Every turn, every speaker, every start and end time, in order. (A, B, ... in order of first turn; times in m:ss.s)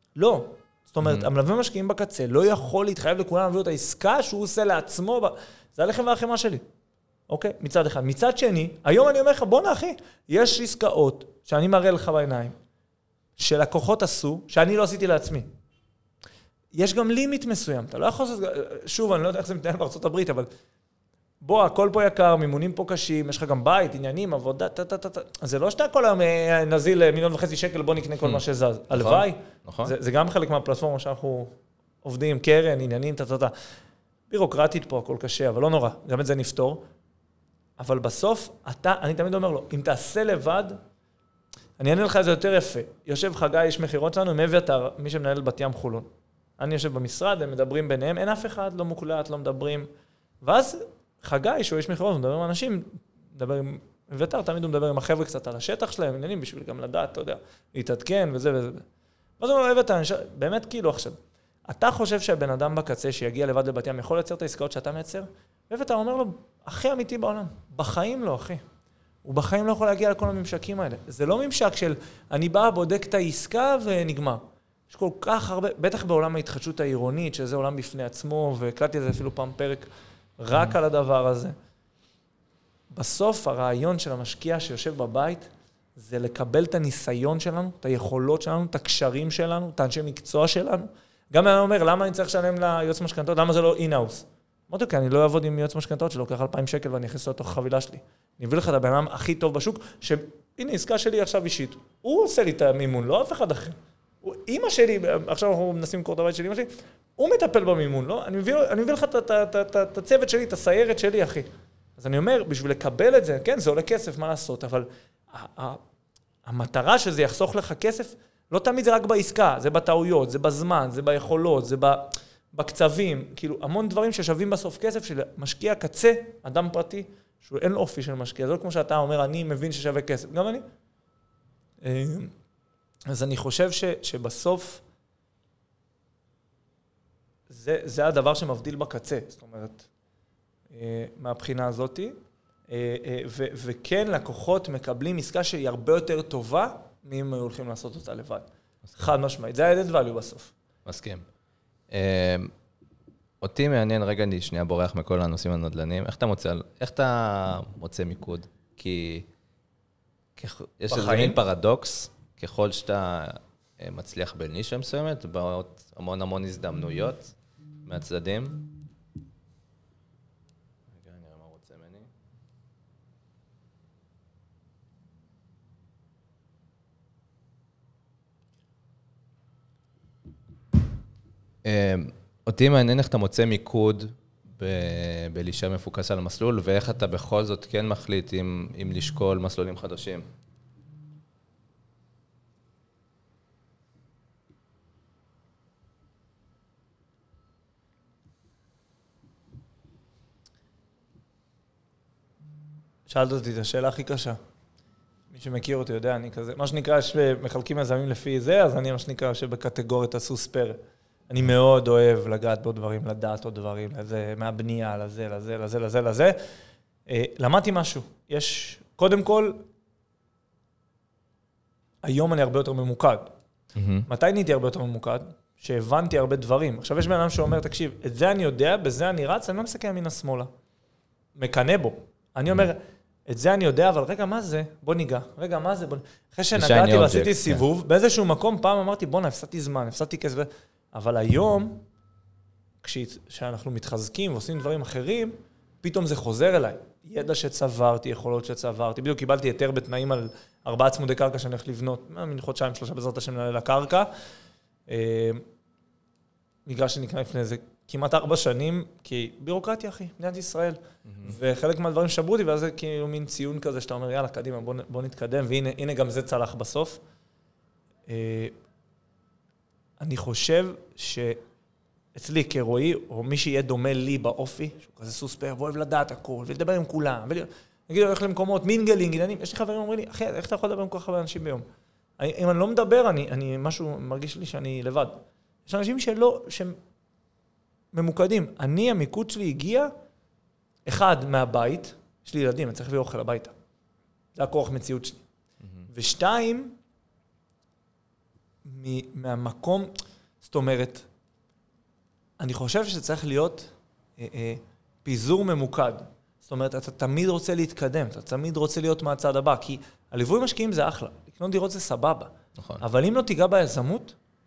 0:00.2-0:06.6 A
0:01.0-0:01.3 B
0:07.3-0:12.6 A
0:13.4-0:15.5 A
0:16.7-0:20.5 A
0:21.4-0:31.5 A
0:28.2-0:29.9 B
0:32.0-0:33.5 A
0:34.3-0:36.8 A
0:37.8-0:40.8 A
0:41.8-0:46.1 A
0:46.6-0:49.9 A
0:50.4-0:58.8 A
0:59.4-1:08.6 A
1:09.2-1:21.6 A
1:22.9-1:55.8 A
1:56.5-2:10.6 A
2:11.8-2:12.3 A
2:13.1-2:14.8 A
2:17.5-2:19.9 A
2:20.7-2:22.1 A
2:22.7-2:28.4 A
2:29.0-2:30.5 A
2:30.8-2:31.2 B
2:31.9-2:32.5 B
2:33.4-2:39.3 B
2:40.4-2:47.3 B
2:40.9-2:41.4 A
2:47.9-2:48.6 B
2:50.9-2:52.1 B
3:01.6-3:10.2 B
3:23.1-3:24.4 A
3:25.3-3:36.4 A
3:37.1-3:39.6 A
3:42.0-3:43.3 A
3:43.8-3:44.1 B
3:44.1-3:50.5 A
3:51.4-4:01.8 A
3:56.5-3:57.6 B
4:02.8-4:14.1 A
4:14.9-4:15.4 A
4:16.7-4:27.0 A
4:21.1-4:21.4 B
4:28.1-4:28.5 A
4:30.0-4:31.4 A
4:32.2-4:41.6 A
4:42.2-4:46.8 A
4:47.9-4:49.9 A
4:50.9-4:53.5 A
4:54.4-4:55.2 A
4:55.6-4:55.9 B
4:55.9-4:56.8 A
4:58.6-4:59.9 A
5:00.4-5:01.1 A
5:02.4-5:14.2 A